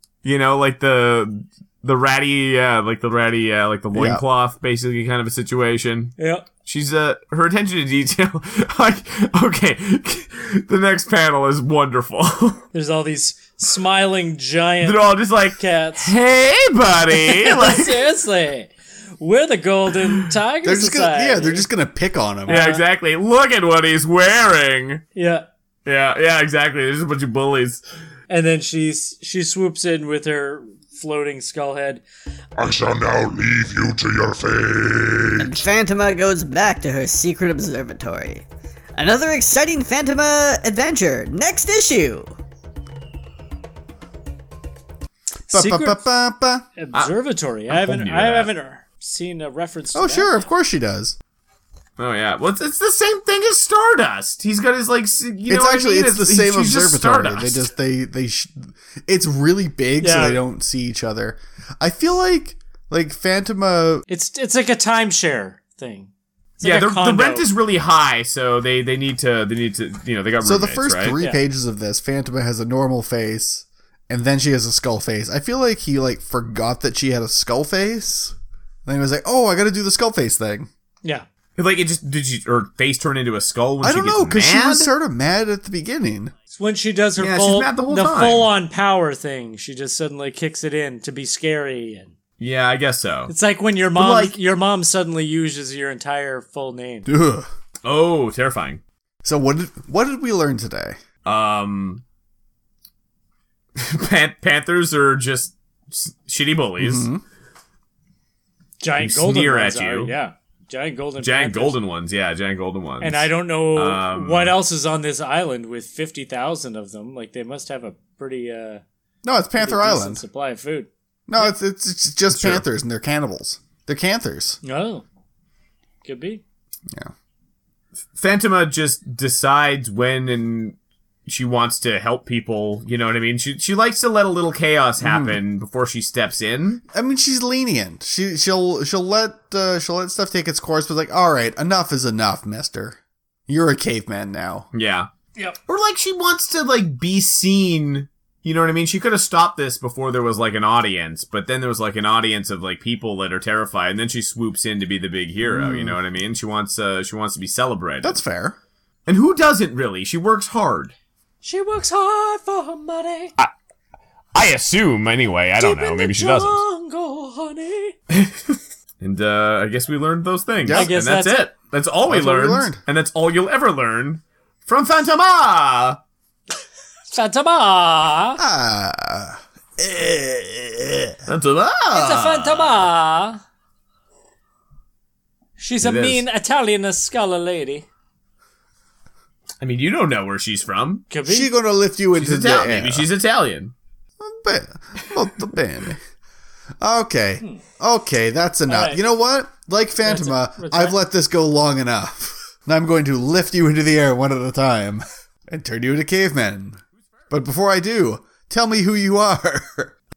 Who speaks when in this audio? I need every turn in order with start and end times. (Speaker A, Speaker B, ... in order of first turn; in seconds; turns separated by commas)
Speaker A: 0.2-12.6, Speaker B: 3.9-4.2, Speaker C: 6.2-6.5, Speaker C: 12.7-16.1, Speaker A: 14.8-18.0, Speaker C: 17.1-21.7, Speaker B: 20.6-22.6, Speaker C: 22.5-22.8, Speaker A: 22.5-25.0, Speaker C: 25.1-25.4, Speaker A: 25.9-27.8, Speaker C: 28.3-32.0, Speaker D: 32.6-35.6, Speaker E: 35.4-38.4, Speaker E: 39.0-42.3, Speaker C: 45.5-46.0, Speaker B: 45.5-46.7, Speaker C: 46.8-50.4, Speaker A: 47.7-48.5, Speaker B: 49.9-51.1, Speaker A: 52.0-57.7, Speaker B: 55.5-64.0, Speaker C: 60.0-60.4, Speaker C: 64.1-67.5, Speaker A: 66.6-71.2, Speaker B: 70.4-78.3, Speaker B: 78.8-80.7, Speaker A: 81.6-84.9, Speaker B: 83.8-86.3, Speaker C: 86.5-92.1, Speaker A: 87.2-88.5, Speaker A: 92.4-93.3, Speaker C: 93.3-97.1, Speaker A: 93.9-94.4, Speaker B: 97.0-97.5, Speaker A: 97.8-98.8, Speaker B: 99.2-101.0, Speaker A: 101.2-102.0, Speaker A: 103.8-107.1, Speaker B: 106.8-107.2, Speaker C: 108.8-111.8, Speaker A: 109.0-110.1, Speaker A: 111.2-114.5, Speaker C: 113.0-118.8, Speaker B: 119.2-120.2, Speaker C: 119.6-120.9, Speaker B: 121.3-124.6, Speaker A: 122.3-122.6, Speaker C: 124.6-125.0, Speaker C: 126.0-126.4, Speaker A: 128.2-130.8, Speaker A: 131.3-136.8, Speaker B: 135.0-135.4, Speaker B: 136.9-144.7, Speaker A: 144.7-145.1, Speaker A: 145.7-158.2, Speaker B: 155.4-156.0, Speaker B: 158.0-158.6, Speaker A: 159.1-160.9, Speaker C: 161.4-163.3, Speaker A: 164.3-166.6, Speaker C: 165.6-168.0, Speaker A: 168.1-176.0, Speaker B: 170.6-170.9, Speaker C: 170.7-171.5, Speaker B: 172.1-172.8, Speaker C: 177.1-178.4, Speaker B: 178.4-181.2, Speaker A: 181.2-182.9, Speaker C: 181.9-183.4, Speaker C: 185.6-187.9, Speaker A: 185.8-186.2, Speaker A: 189.6-191.1, Speaker C: 191.1-191.5, Speaker B: 191.2-193.1, Speaker A: 192.1-193.7, Speaker B: 194.2-196.0, Speaker B: 196.8-209.9, Speaker C: 198.7-199.0, Speaker C: 200.0-200.9